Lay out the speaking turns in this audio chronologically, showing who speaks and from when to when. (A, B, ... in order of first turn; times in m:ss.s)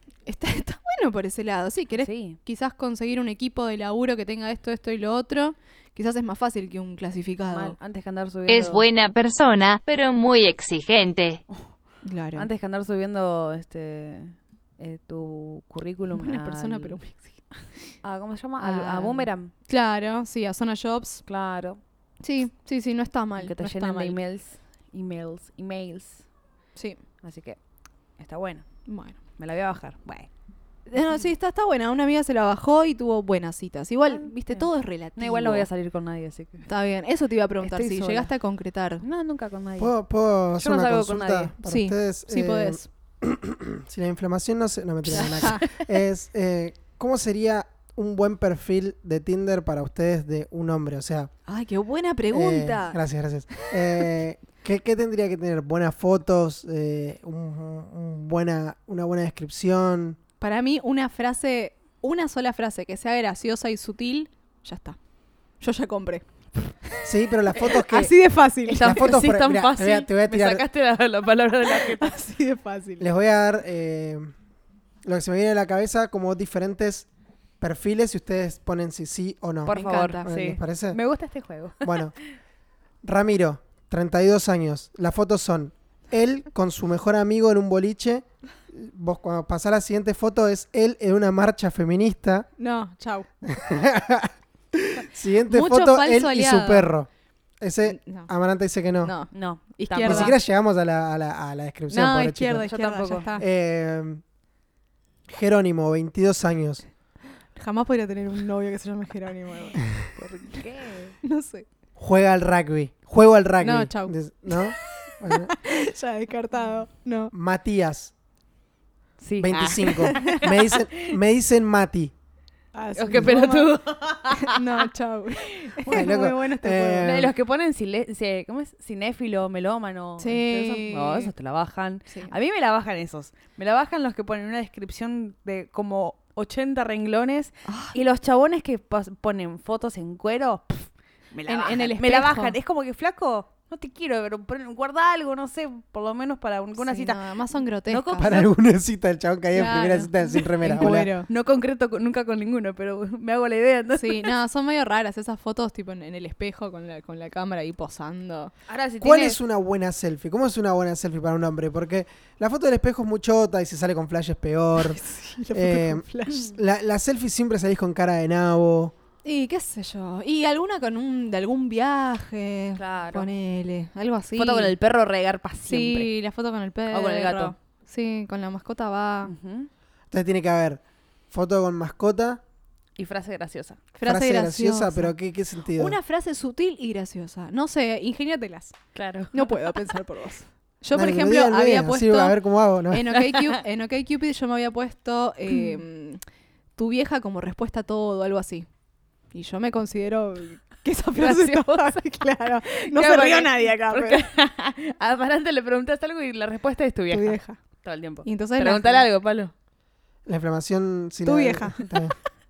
0:00.3-0:07.8 A
0:02.0-0:02.4 B
0:07.5-0:08.8 B
0:08.5-0:11.4 C
0:12.0-0:12.5 A
0:12.4-0:17.0 B
0:16.2-0:17.4 A
0:18.0-0:19.5 B
0:18.6-0:21.2 A
0:21.3-0:21.8 B
0:22.2-0:24.2 A
0:23.4-0:26.3 B
0:27.2-0:27.6 B
0:28.2-0:28.7 B
0:28.9-0:29.2 A
0:29.4-0:30.3 B
0:30.9-0:35.7 A
0:34.1-0:36.7 B
0:36.7-0:39.0 A
0:37.6-0:38.3 B
0:39.0-0:39.9 B
0:39.8-0:51.3 D
0:40.6-0:41.5 B
0:41.6-0:42.9 A
0:45.2-0:45.7 A
0:51.5-0:53.0 A
0:52.3-1:00.2 D
1:00.4-1:05.0 A
1:05.6-1:06.3 A
1:06.9-1:09.1 A
1:07.0-1:08.2 D
1:08.7-1:12.2 B
1:08.8-1:10.6 D
1:11.7-1:13.1 A
1:13.0-1:14.3 D
1:15.0-1:17.1 D
1:17.6-1:21.0 D
1:19.6-1:22.2 B
1:19.7-1:20.3 A
1:21.8-1:22.1 D
1:23.0-1:32.5 D
1:32.6-1:33.3 A
1:33.4-1:37.1 D
1:35.5-1:36.9 A
1:37.6-1:39.1 D
1:37.8-1:38.3 A
1:39.0-1:40.3 A
1:39.3-1:40.4 B
1:40.0-1:42.7 D
1:41.9-1:43.4 A
1:42.6-1:43.3 B
1:43.4-1:44.2 D
1:45.3-1:46.8 D
1:47.6-1:49.8 A
1:50.2-1:51.2 B
1:51.2-1:51.7 A
1:52.0-1:55.6 D
1:53.6-1:54.7 A
1:55.3-1:57.3 A
1:57.3-1:58.1 D
1:59.2-2:01.2 B
1:59.4-2:02.1 D
2:00.0-2:00.5 A
2:02.8-2:03.8 A
2:03.0-2:04.9 B
2:04.4-2:07.2 A
2:05.5-2:06.1 B
2:05.9-2:07.3 D
2:07.0-2:27.2 B
2:10.2-2:11.3 A
2:17.7-2:18.0 A
2:21.5-2:22.6 A
2:26.8-2:28.4 A
2:27.9-2:28.5 B
2:28.2-2:31.1 D
2:29.5-2:31.3 A
2:30.8-2:34.3 B
2:34.0-2:38.5 A
2:38.7-2:39.4 B
2:39.0-2:48.9 D
2:44.8-2:46.5 A
2:49.2-2:54.7 A
2:52.8-2:53.3 B
2:54.4-2:56.1 B
2:55.7-2:59.3 A
2:56.9-2:57.5 B
2:59.2-2:59.7 B
3:00.1-3:02.4 D
3:03.0-3:03.8 B
3:04.0-3:05.1 A
3:04.0-3:06.0 D
3:05.8-3:08.8 A
3:09.0-3:09.8 B
3:09.3-3:12.4 A
3:10.9-3:13.1 D
3:12.9-3:16.2 A
3:13.2-3:13.5 B
3:15.5-3:15.8 B
3:16.8-3:18.7 A
3:19.3-3:24.2 A
3:21.2-3:22.0 B
3:22.6-3:29.5 B
3:27.1-3:27.6 A
3:28.2-3:29.1 A
3:30.3-3:32.2 D
3:31.3-3:31.8 A